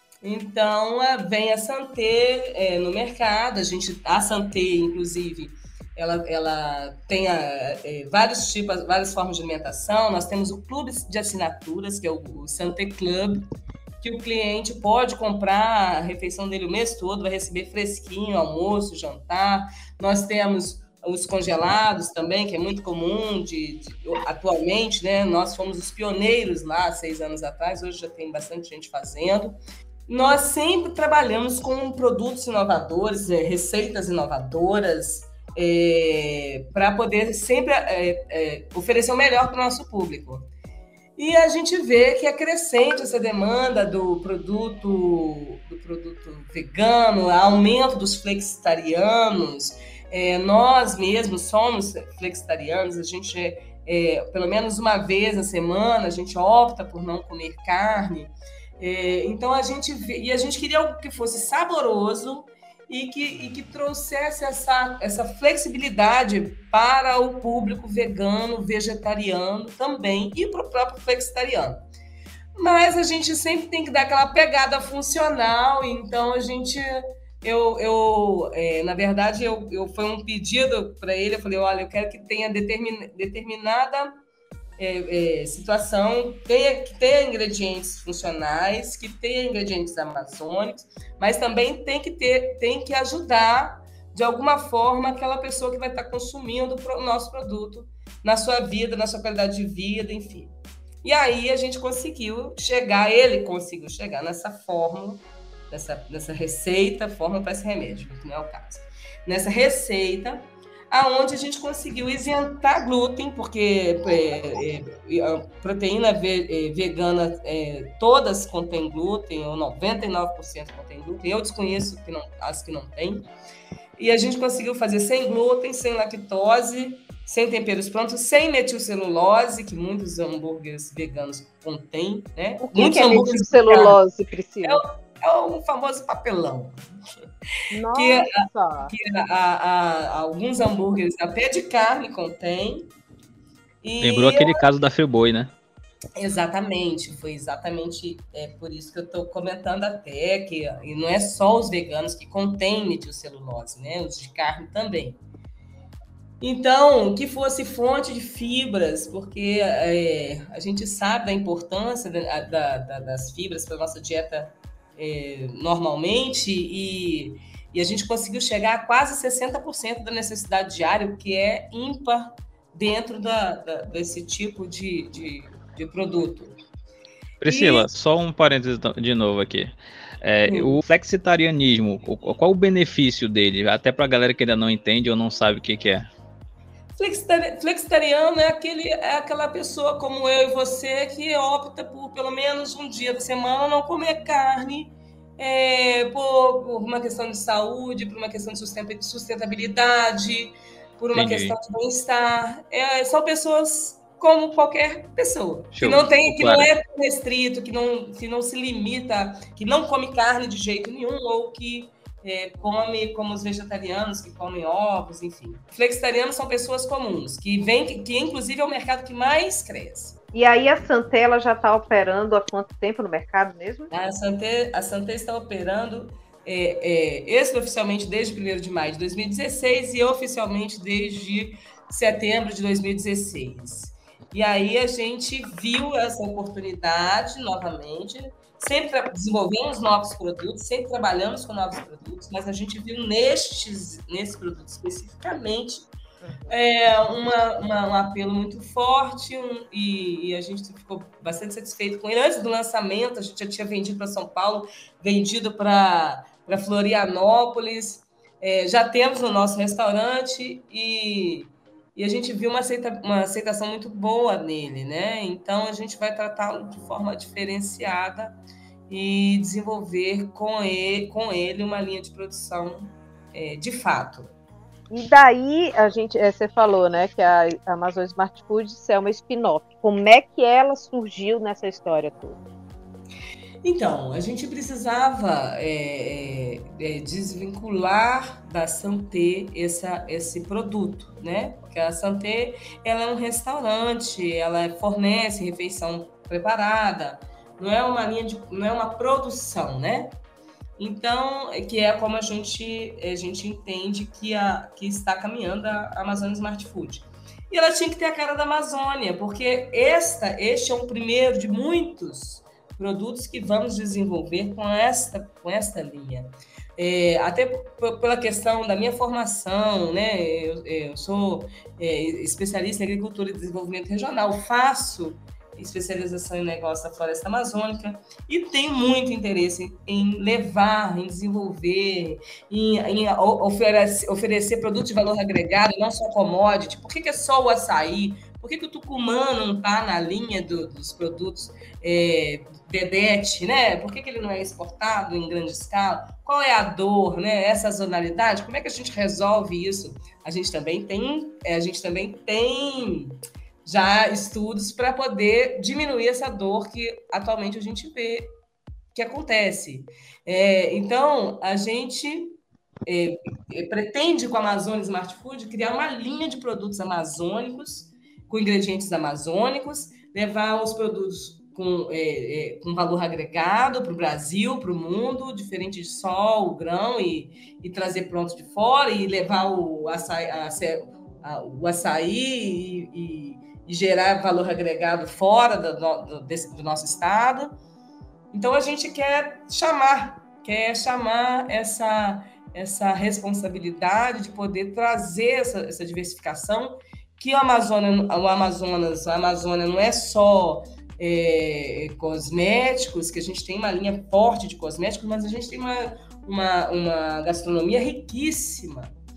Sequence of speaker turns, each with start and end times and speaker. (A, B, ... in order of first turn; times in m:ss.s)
0:00.2-0:13.4 A
0:14.0-0:40.4 A
0:41.2-1:11.8 A
1:12.6-1:24.2 A
1:24.8-2:03.3 A
2:04.0-2:14.0 A
2:12.6-2:14.8 B
2:14.6-2:16.8 A
2:17.7-2:18.9 B
2:17.9-2:22.9 A
2:23.8-2:24.6 A
2:24.0-2:25.5 C
2:26.2-2:35.2 A
2:36.4-2:56.6 A
2:57.4-3:06.0 C
2:57.4-2:57.9 A
3:00.4-3:00.8 A
3:07.0-3:40.2 A
3:21.1-3:21.5 C
3:25.8-3:26.7 C
3:40.3-3:43.9 B
3:43.9-4:05.9 A
4:06.2-4:06.5 B
4:06.5-4:28.4 A
4:28.9-4:34.3 A
4:34.9-4:42.4 B
4:43.6-5:00.2 A
5:00.8-5:58.3 A
5:58.9-6:27.5 A
6:28.3-6:48.9 A